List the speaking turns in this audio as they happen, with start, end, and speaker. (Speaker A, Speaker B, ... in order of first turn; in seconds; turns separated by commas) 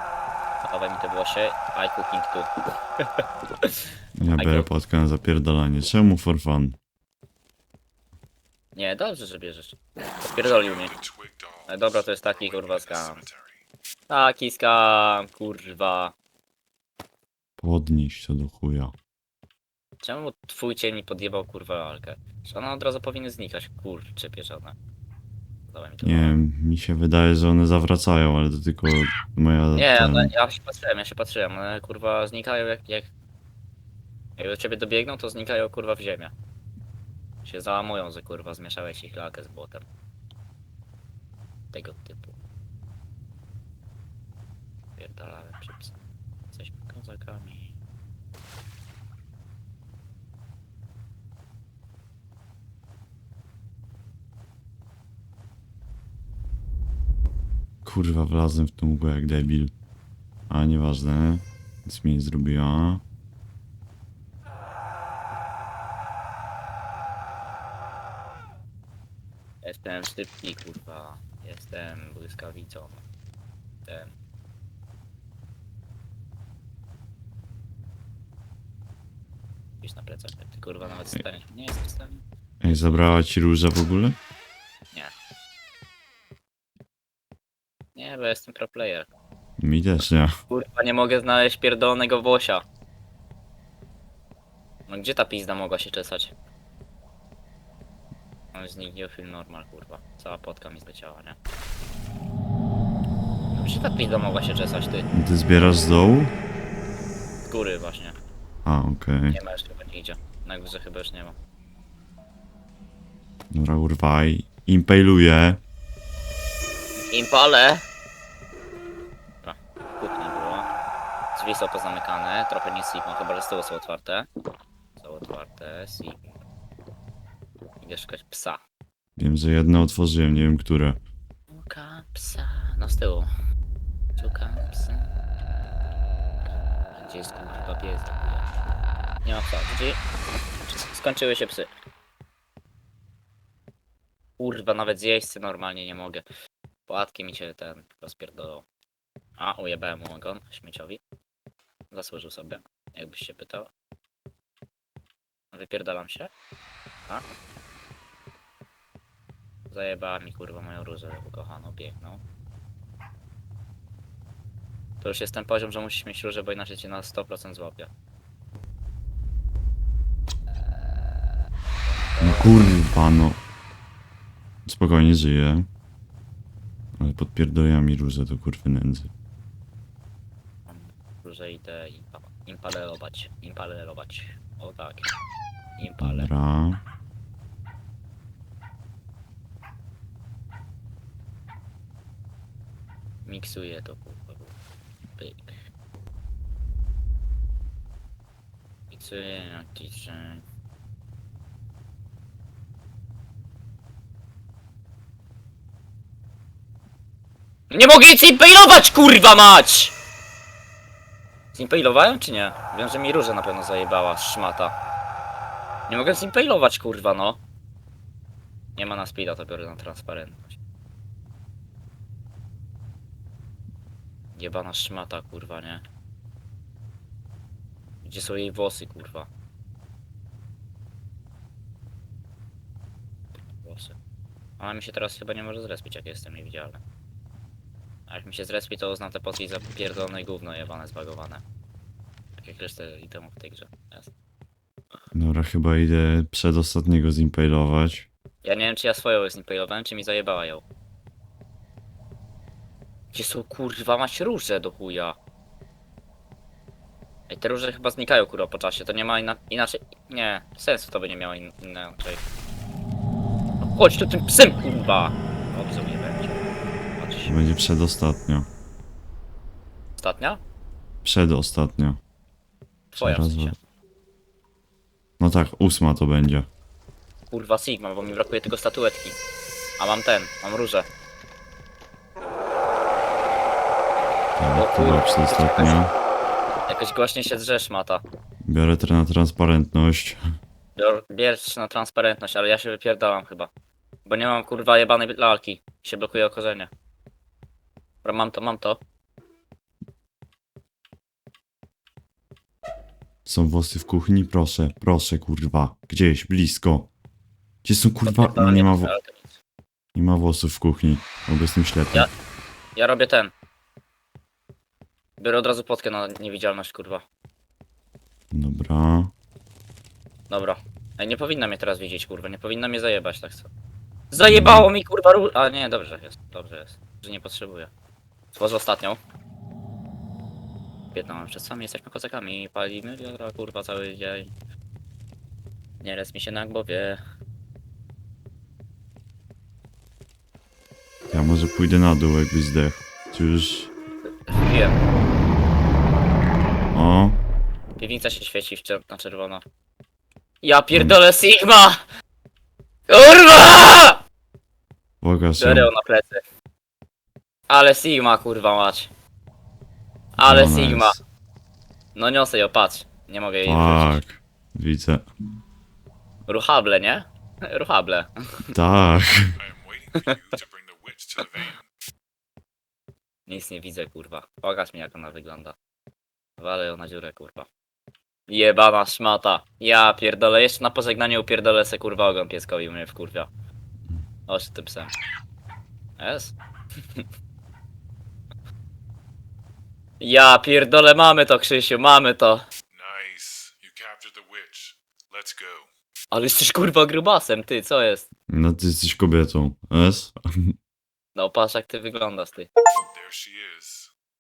Speaker A: 0.6-2.5, Speaker B: 4.2-6.8, Speaker A: 4.4-4.7, Speaker A: 8.8-10.9, Speaker C: 10.4-13.6, Speaker A: 11.7-13.2, Speaker A: 14.1-16.1, Speaker B: 17.6-18.9, Speaker A: 20.0-24.8, Speaker A: 25.7-26.4, Speaker B: 26.0-30.3, Speaker A: 29.8-33.1, Speaker A: 34.4-36.3, Speaker A: 37.4-39.9, Speaker A: 41.7-42.4, Speaker A: 45.0-47.8, Speaker B: 57.9-59.7, Speaker B: 60.5-63.0, Speaker A: 69.6-73.0, Speaker A: 73.9-74.2, Speaker A: 79.8-83.0, Speaker B: 82.6-84.2, Speaker A: 88.0-89.1, Speaker B: 89.6-90.3, Speaker A: 90.5-92.7, Speaker A: 94.9-96.3, Speaker A: 98.5-101.4, Speaker A: 103.5-105.1, Speaker B: 105.1-106.3, Speaker A: 107.4-108.2, Speaker B: 108.7-109.4, Speaker A: 109.3-111.4, Speaker B: 113.5-115.6, Speaker A: 117.1-117.9, Speaker A: 119.4-120.7, Speaker A: 121.3-124.3, Speaker A: 125.0-126.3, Speaker A: 127.8-128.6, Speaker B: 129.2-131.0, Speaker A: 131.5-133.3, Speaker A: 134.2-135.1, Speaker A: 136.9-138.6, Speaker A: 139.2-140.0, Speaker A: 140.7-141.7, Speaker A: 144.4-146.2, Speaker A: 146.9-148.7, Speaker A: 149.4-151.0, Speaker A: 151.9-153.7, Speaker A: 155.5-156.3, Speaker A: 159.7-162.2, Speaker A: 165.0-167.9, Speaker A: 171.8-172.8, Speaker B: 172.2-173.4, Speaker B: 174.7-175.7, Speaker B: 177.0-179.1, Speaker A: 180.7-185.1, Speaker A: 185.8-186.3, Speaker B: 186.0-186.8, Speaker A: 193.3-194.6, Speaker A: 195.1-195.6, Speaker A: 198.9-200.4, Speaker A: 207.7-209.9, Speaker A: 211.5-214.7, Speaker A: 215.9-217.4, Speaker A: 218.8-220.6, Speaker A: 224.3-225.8, Speaker A: 228.0-229.3, Speaker A: 233.4-234.0, Speaker A: 234.6-236.8, Speaker A: 238.1-241.4, Speaker A: 242.4-244.1, Speaker B: 245.1-248.1, Speaker A: 248.4-250.7, Speaker A: 253.1-255.2, Speaker A: 257.3-262.2, Speaker A: 263.6-267.4, Speaker B: 267.3-268.5, Speaker A: 270.0-270.4, Speaker B: 271.0-272.0, Speaker A: 272.9-273.6, Speaker B: 273.0-273.6, Speaker B: 275.2-276.5, Speaker A: 277.3-279.2, Speaker A: 279.8-280.9, Speaker B: 284.4-285.9, Speaker A: 284.5-285.8, Speaker A: 286.7-288.0, Speaker B: 288.4-290.2, Speaker A: 290.8-293.5, Speaker A: 294.1-296.7, Speaker A: 298.0-298.8, Speaker B: 303.2-306.9, Speaker B: 307.6-308.9, Speaker A: 308.1-309.4, Speaker B: 309.9-312.1, Speaker A: 312.8-313.3, Speaker A: 315.2-317.1, Speaker B: 318.3-319.1, Speaker A: 320.3-323.5, Speaker A: 324.1-327.7, Speaker B: 324.3-324.7, Speaker A: 328.3-329.0, Speaker A: 330.9-334.3, Speaker A: 335.8-337.0, Speaker B: 341.1-343.7, Speaker A: 344.3-344.8, Speaker B: 346.7-347.2, Speaker A: 347.8-349.4, Speaker A: 350.4-351.8, Speaker A: 352.9-354.0, Speaker B: 355.0-355.7, Speaker A: 355.4-356.2, Speaker A: 357.5-358.9, Speaker A: 360.2-361.0, Speaker B: 360.2-361.0, Speaker A: 361.9-364.0, Speaker B: 363.4-365.1, Speaker A: 366.3-368.1, Speaker B: 368.5-369.3, Speaker C: 369.4-371.7, Speaker A: 373.3-375.6, Speaker A: 376.4-377.5, Speaker A: 378.3-383.3, Speaker A: 384.3-384.9, Speaker A: 386.0-386.4, Speaker A: 390.0-392.5, Speaker C: 392.7-395.7, Speaker A: 396.1-398.1, Speaker B: 398.3-400.5, Speaker A: 401.1-402.5, Speaker C: 402.9-403.9